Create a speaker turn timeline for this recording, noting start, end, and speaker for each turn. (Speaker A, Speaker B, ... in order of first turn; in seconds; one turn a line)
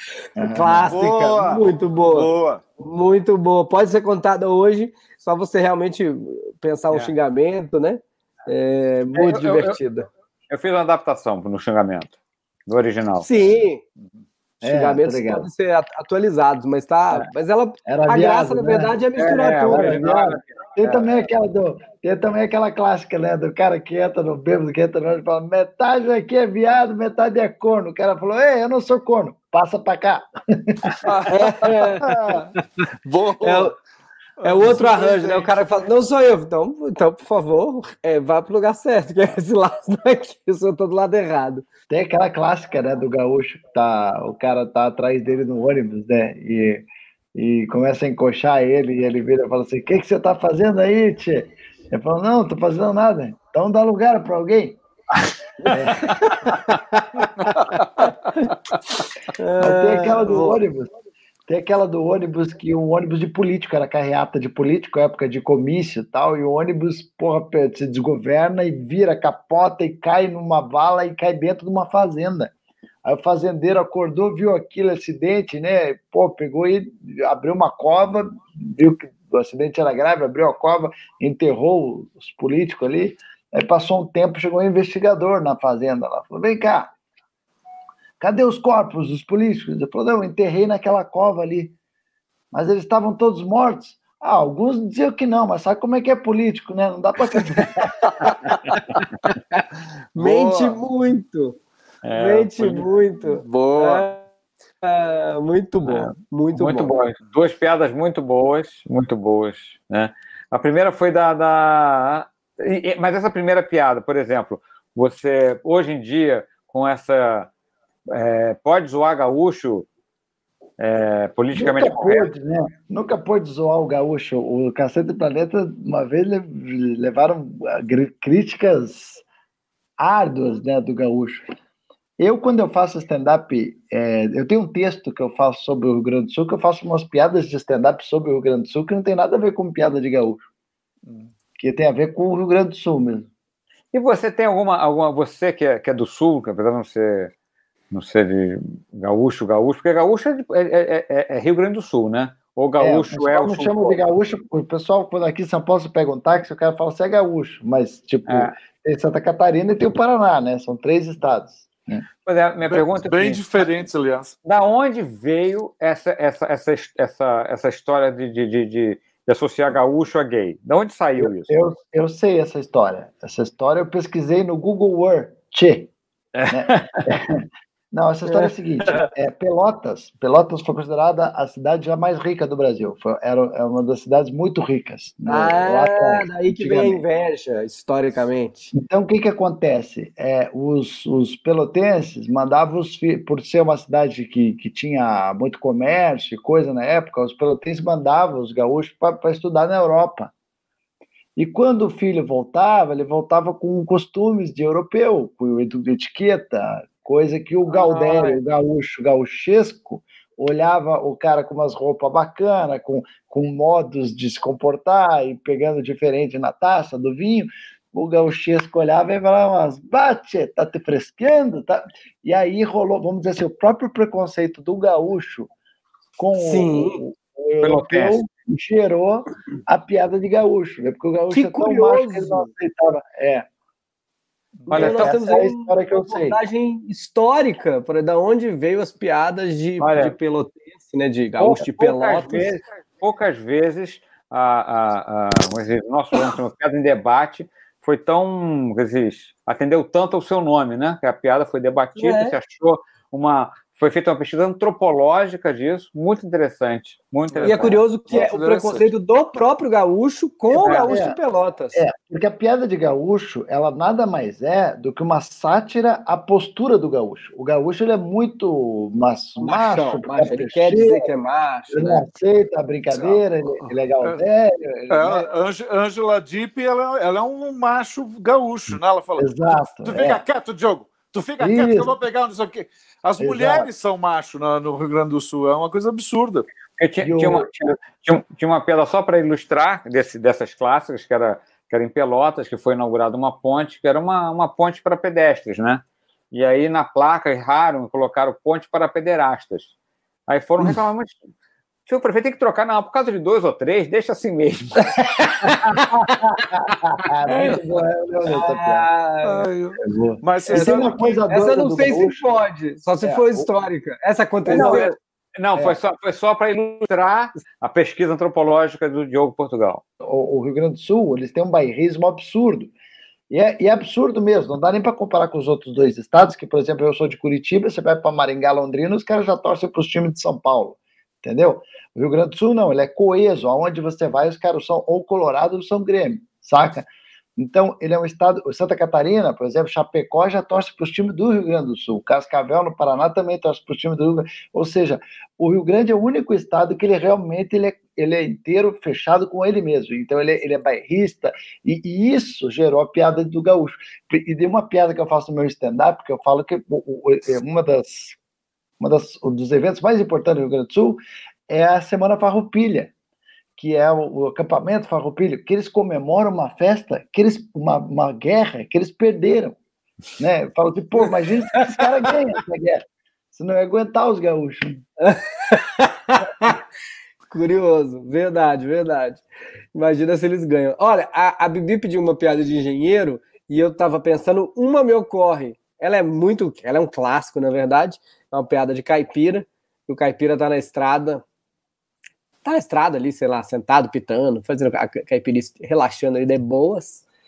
Speaker A: 0.4-0.9
Speaker B: 0.4-10.1
Speaker C: 0.9-2.6
Speaker D: 9.1-9.8
Speaker D: 10.5-12.1
Speaker D: 12.7-13.3
Speaker B: 13.2-13.8
Speaker A: 14.6-15.5
Speaker B: 14.6-20.0
Speaker A: 17.9-19.0
Speaker D: 19.2-21.1
Speaker A: 19.5-31.0
Speaker C: 31.0-33.7
Speaker B: 31.3-32.1
Speaker B: 33.4-33.8
Speaker C: 34.4-35.5
Speaker B: 34.4-41.6
Speaker A: 41.9-46.8
Speaker A: 47.4-54.8
Speaker B: 55.7-57.2
Speaker A: 55.7-56.1
Speaker C: 57.6-58.1
Speaker B: 59.4-60.6
Speaker A: 59.6-60.9
Speaker A: 61.5-72.5
Speaker A: 73.0-86.9
Speaker A: 88.2-91.7
Speaker A: 92.5-98.1
Speaker B: 98.5-99.6
Speaker B: 100.1-101.6
Speaker C: 100.2-100.8
Speaker D: 102.0-102.9
Speaker B: 102.1-104.2
Speaker C: 103.3-104.1
Speaker B: 104.8-106.9
Speaker D: 105.9-117.5
Speaker D: 118.1-119.9
Speaker D: 120.8-122.3
Speaker A: 121.5-129.2
Speaker A: 130.0-131.4
Speaker A: 132.2-140.5
Speaker C: 141.0-141.3
Speaker A: 141.6-143.3
Speaker D: 143.9-147.3
Speaker D: 147.9-154.0
Speaker A: 152.8-162.1
Speaker D: 158.3-158.5
Speaker D: 162.2-163.4
Speaker C: 162.6-164.3
Speaker D: 164.4-171.5
Speaker A: 171.2-175.9
Speaker D: 176.3-177.1
Speaker A: 176.5-177.4
Speaker A: 177.9-187.0
Speaker B: 185.2-188.6
Speaker A: 188.7-200.3
Speaker A: 201.4-225.5
Speaker B: 207.7-208.4
Speaker A: 226.2-233.5
Speaker B: 226.4-227.0
Speaker D: 227.6-228.2
Speaker B: 231.3-232.5
Speaker C: 234.6-234.9
Speaker A: 234.7-236.4
Speaker B: 234.7-242.5
Speaker D: 234.7-235.2
Speaker D: 239.8-240.1
Speaker D: 241.4-257.8
Speaker B: 252.0-252.3
Speaker C: 257.3-258.9
Speaker B: 257.4-261.8
Speaker D: 260.5-260.9
Speaker A: 260.6-261.2
Speaker A: 261.7-271.1
Speaker B: 269.4-272.1
Speaker A: 271.7-275.2
Speaker C: 272.9-273.2
Speaker C: 274.9-286.4
Speaker A: 279.2-280.2
Speaker A: 281.4-281.9
Speaker A: 283.2-283.7
Speaker D: 286.8-299.7
Speaker A: 287.0-287.5
Speaker D: 300.3-301.2
Speaker D: 301.9-305.9
Speaker B: 305.0-305.8
Speaker A: 306.5-308.9
Speaker B: 307.3-307.6
Speaker B: 308.3-309.5
Speaker C: 309.2-311.2
Speaker A: 309.9-312.3
Speaker B: 310.5-314.9
Speaker A: 313.0-313.5
Speaker A: 314.5-314.8
Speaker D: 314.5-319.8
Speaker A: 320.0-322.7
Speaker A: 323.3-336.9
Speaker A: 337.4-358.2
Speaker A: 358.8-362.9
Speaker A: 363.6-369.6
Speaker A: 370.2-374.8
Speaker B: 375.0-376.6
Speaker B: 377.3-379.2
Speaker B: 379.7-391.2
Speaker B: 392.4-397.0